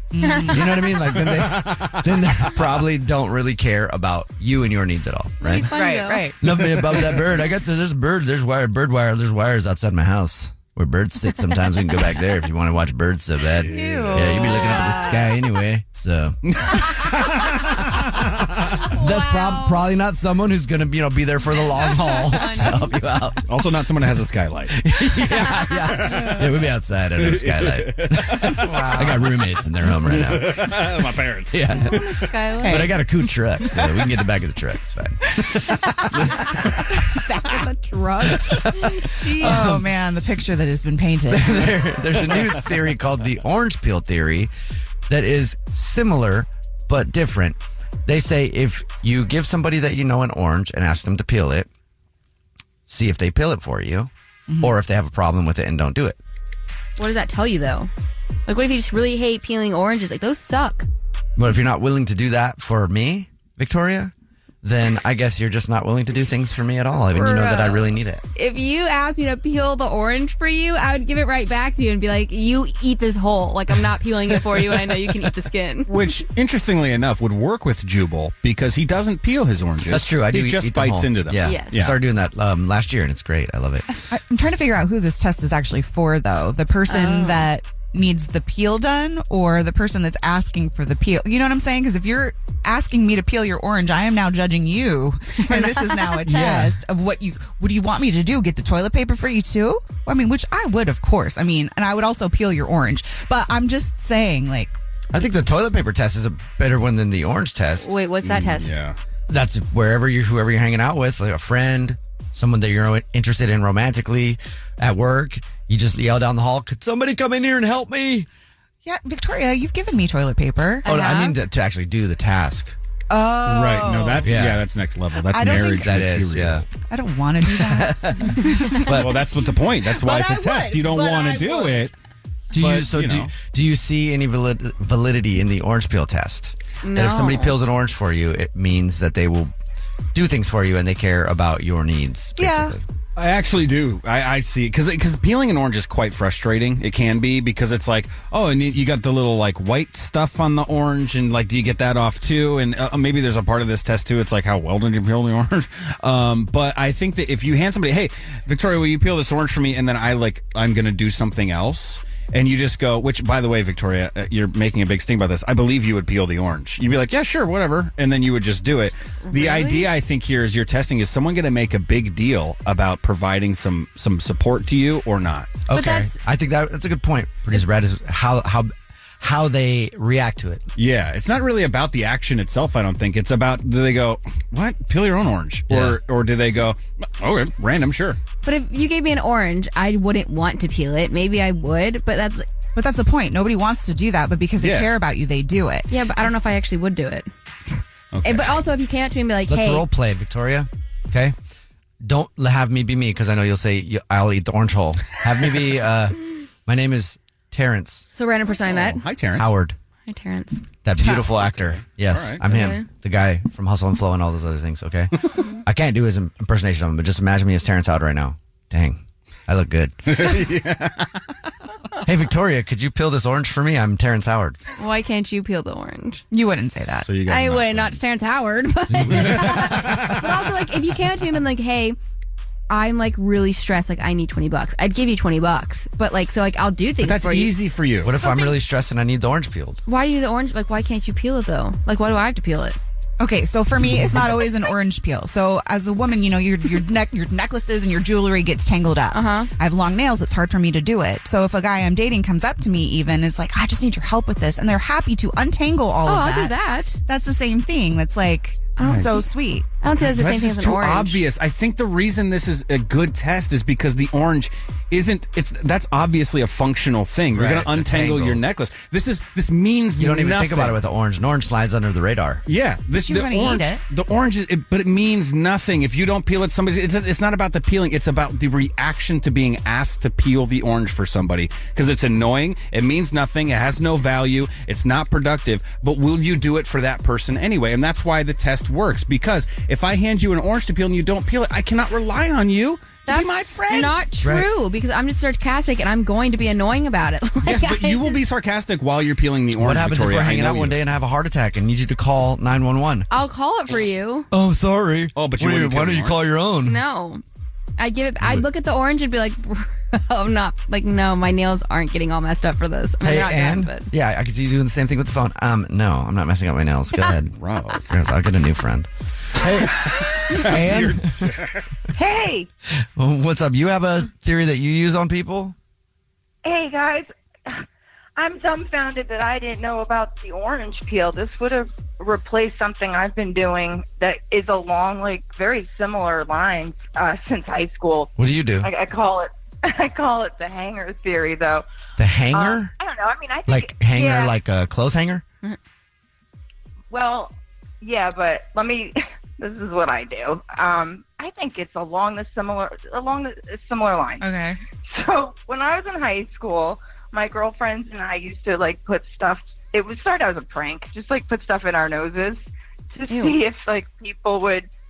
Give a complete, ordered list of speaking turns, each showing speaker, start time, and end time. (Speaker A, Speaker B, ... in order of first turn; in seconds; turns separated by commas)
Speaker A: 0.1-0.8, Speaker B: 0.2-0.9, Speaker C: 0.5-5.8, Speaker D: 1.2-2.4, Speaker B: 5.4-6.3, Speaker A: 5.6-6.4, Speaker C: 6.4-17.0, Speaker D: 13.6-14.5, Speaker A: 13.7-15.3, Speaker B: 14.6-14.9, Speaker D: 16.4-18.5, Speaker B: 18.8-19.8, Speaker C: 18.9-23.5, Speaker B: 21.5-22.9, Speaker D: 23.5-26.5, Speaker C: 24.7-30.9, Speaker D: 27.2-29.1, Speaker A: 28.6-29.2, Speaker D: 29.9-32.3, Speaker C: 31.5-32.0, Speaker B: 31.7-33.2, Speaker A: 32.6-32.9, Speaker C: 32.6-37.0, Speaker B: 36.0-36.5, Speaker B: 37.0-39.7, Speaker C: 38.4-39.9, Speaker A: 39.4-41.7, Speaker C: 41.3-44.5, Speaker C: 45.1-51.7, Speaker C: 52.9-56.2, Speaker A: 54.5-54.7, Speaker B: 57.0-57.9, Speaker B: 58.5-60.9, Speaker C: 61.4-64.1, Speaker C: 64.6-68.2, Speaker B: 67.1-75.9, Speaker D: 75.9-82.0, Speaker C: 79.9-83.9, Speaker B: 81.4-81.8, Speaker A: 84.1-104.8, Speaker B: 86.9-87.5, Speaker B: 95.5-96.1, Speaker C: 96.2-96.8, Speaker C: 105.1-108.0, Speaker B: 107.8-108.8, Speaker D: 108.2-109.0, Speaker C: 109.3-118.3, Speaker A: 118.8-120.9, Speaker B: 120.8-121.3, Speaker C: 120.8-122.8, Speaker A: 123.1-124.4, Speaker D: 123.4-126.7, Speaker C: 124.2-124.7, Speaker A: 125.3-126.0, Speaker C: 125.4-126.7, Speaker A: 126.9-128.9, Speaker C: 127.5-129.2, Speaker D: 128.8-131.9, Speaker A: 129.8-131.9, Speaker C: 132.5-139.5, Speaker D: 132.6-133.3, Speaker B: 136.8-137.6, Speaker C: 140.1-142.8, Speaker A: 142.4-142.7, Speaker D: 143.2-175.6, Speaker B: 169.2-169.9, Speaker C: 175.7-180.6, Speaker B: 175.7-176.1, Speaker D: 180.8-188.2, Speaker C: 185.7-186.0, Speaker B: 188.4-192.5, Speaker A: 192.7-195.9, Speaker D: 194.6-194.9, Speaker B: 195.9-197.3, Speaker D: 198.1-198.7, Speaker B: 198.2-199.9, Speaker C: 199.4-201.3, Speaker C: 202.0-208.1, Speaker B: 208.1-209.0, Speaker D: 208.6-209.5, Speaker C: 209.4-209.8, Speaker B: 210.1-211.1, Speaker C: 210.8-220.4, Speaker D: 211.2-212.4, Speaker B: 212.4-212.8, Speaker D: 220.1-221.2, Speaker C: 222.0-224.6, Speaker B: 224.8-226.2, Speaker A: 226.3-227.2, Speaker D: 227.0-228.0, Speaker B: 227.2-232.0, Speaker D: 229.0-230.3, Speaker C: 229.1-229.6, Speaker B: 232.7-237.6, Speaker D: 237.0-238.1, Speaker C: 238.0-239.8, Speaker B: 238.2-238.6, Speaker B: 239.8-242.8, Speaker A: 243.2-256.5, Speaker B: 249.1-249.5, Speaker B: 256.0-257.0, Speaker A: 257.1-259.7, Speaker B: 258.8-259.3, Speaker D: 258.8-259.2, Speaker B: 259.8-261.2, Speaker D: 260.0-270.8, Speaker C: 267.3-268.4, Speaker C: 269.9-272.4, Speaker D: 272.5-294.0, Speaker A: 272.9-273.8, Speaker B: 293.1-298.2, Speaker C: 294.2-294.5, Speaker D: 297.4-300.8, Speaker C: 299.6-303.1, Speaker B: 303.1-304.3, Speaker C: 304.3-306.8, Speaker D: 305.1-306.3, Speaker B: 306.6-307.2, Speaker B: 307.8-313.9, Speaker C: 313.0-321.3, Speaker D: 317.4-317.9, Speaker D: 319.4-321.6, Speaker E: 321.9-322.5, Speaker C: 322.9-325.5, Speaker E: 326.4-327.6, Speaker E: 328.2-341.6, Speaker C: 338.2-338.7, Speaker C: 342.0-342.7, Speaker E: 342.3-344.4, Speaker C: 343.5-345.2, Speaker E: 346.9-354.3, Speaker A: 354.2-354.6, Speaker E: 354.9-364.7, Speaker B: 363.1-363.4